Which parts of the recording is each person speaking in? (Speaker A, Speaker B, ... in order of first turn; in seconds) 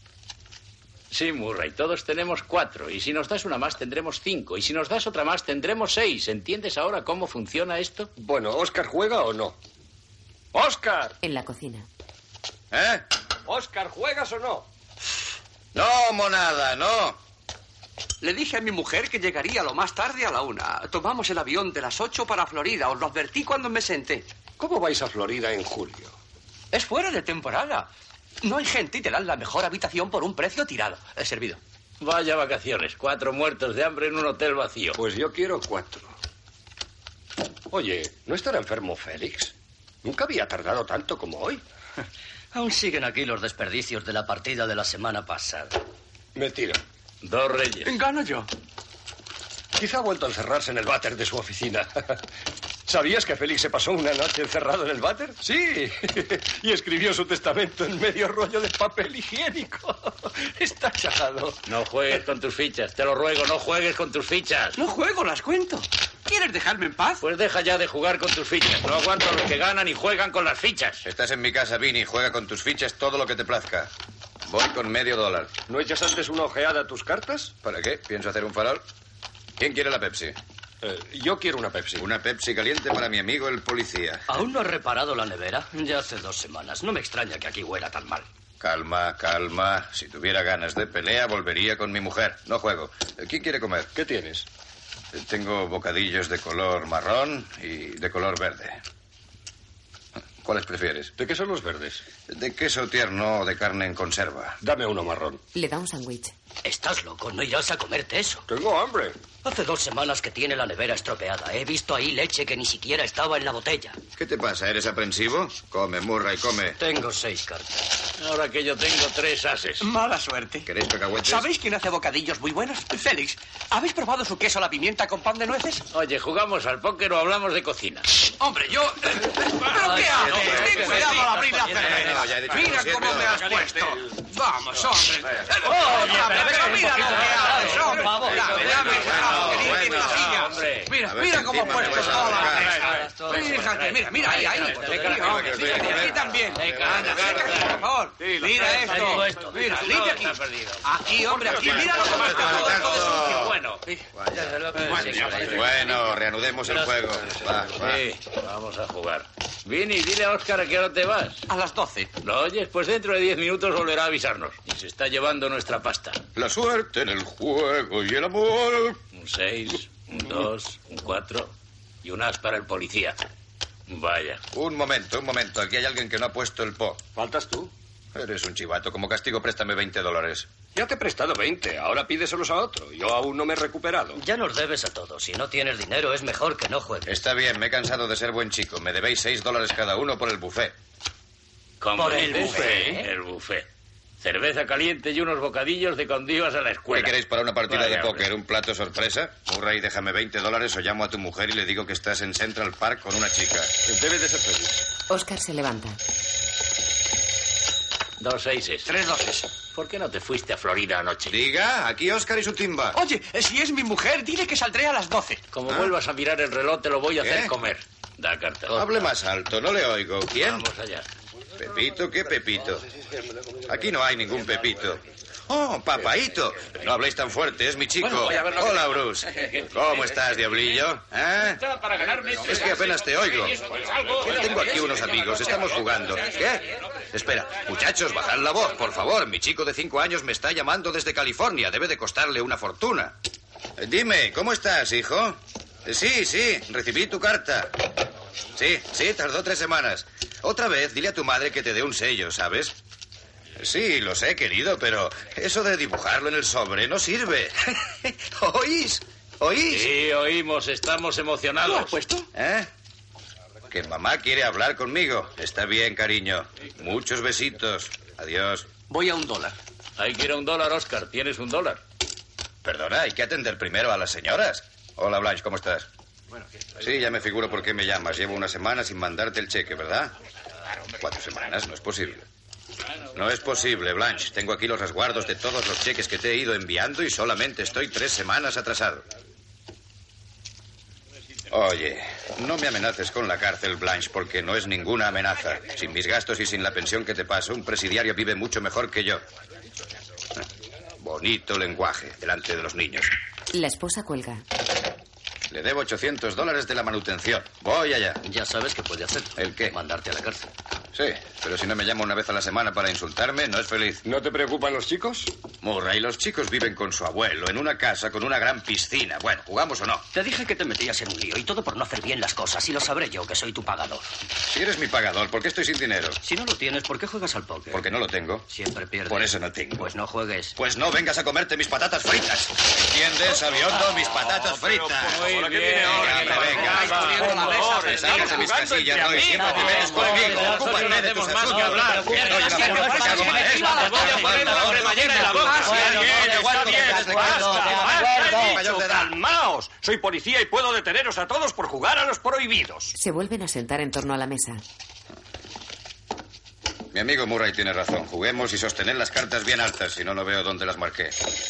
Speaker A: 1.1-8.1, 32.0-35.0, 47.2-47.9, 61.7-64.8, 67.2-71.1, 118.2-119.9, 125.9-128.1, 129.8-131.2, 135.9-140.9, 142.1-147.8, 149.5-153.8, 154.6-155.5, 157.8-161.5, 162.2-166.2, 169.1-173.2, 173.9-174.4, 191.8-193.7, 194.2-197.2, 197.7-198.3, 208.2-208.9, 209.7-211.3, 215.5-218.9, 220.3-221.1, 228.3-228.5, 231.9-232.4, 259.7-262.0, 270.0-271.8, 335.1-338.4, 339.3-345.9
Speaker B: 8.2-9.6, 10.5-11.2, 13.5-14.7, 24.6-26.1, 35.0-36.2, 37.7-39.5, 40.0-41.6, 46.4-46.8, 49.8-52.2, 52.9-61.6, 75.7-77.5, 80.8-82.1, 94.0-94.5, 101.2-102.0, 104.6-105.4, 108.5-109.2, 135.9-136.9, 148.2-149.2, 177.2-177.7, 180.8-184.2, 192.2-192.9, 203.9-204.8, 314.0-315.3, 334.5-340.9, 341.6-352.9
Speaker C: 11.2-11.9, 105.5-106.3, 205.1-206.0, 303.5-304.4, 352.9-354.6
Speaker D: 12.7-13.1, 15.7-17.2, 71.0-73.9, 74.5-75.6, 77.6-78.8, 79.6-80.4, 82.0-84.3, 88.6-93.9, 95.1-98.8, 100.4-101.1, 102.3-104.6, 114.2-116.8, 120.7-121.5, 130.3-133.6, 138.6-140.4, 141.1-142.8, 145.1-146.2, 152.3-153.6, 154.3-158.0, 166.3-169.0, 174.5-177.0, 178.1-180.5, 187.1-190.8, 196.9-203.8, 211.3-213.0, 217.2-217.5, 218.7-220.7, 221.6-222.9, 223.7-231.6, 232.4-233.6, 234.2-243.2, 243.8-247.9, 248.6-252.8, 253.6-259.9, 262.3-262.7, 263.7-268.7, 272.6-275.9, 276.8-280.1, 281.0-282.3, 283.1-289.0, 291.5-299.2, 301.0-303.1, 305.5-308.2, 309.4-309.8, 310.9-314.0, 315.6-320.1, 324.5-326.2, 327.7-328.5, 329.1-329.9, 330.6-335.3, 335.8-349.1, 356.9-361.2
Speaker E: 18.2-24.3, 26.7-27.9, 28.4-31.6, 47.8-48.5, 64.8-67.2, 119.8-120.7, 121.2-125.8, 128.4-154.0, 161.5-162.1, 208.8-209.4, 212.9-215.4, 261.6-262.3, 268.9-269.6, 342.3-345.7
Speaker F: 42.5-45.8, 84.3-88.3, 106.6-108.5, 109.4-114.0, 116.8-117.9, 149.0-149.9, 154.9-155.9, 184.2-187.1, 192.0-193.0, 308.2-310.5, 320.1-324.1, 326.2-327.9, 328.5-330.6, 345.8-348.4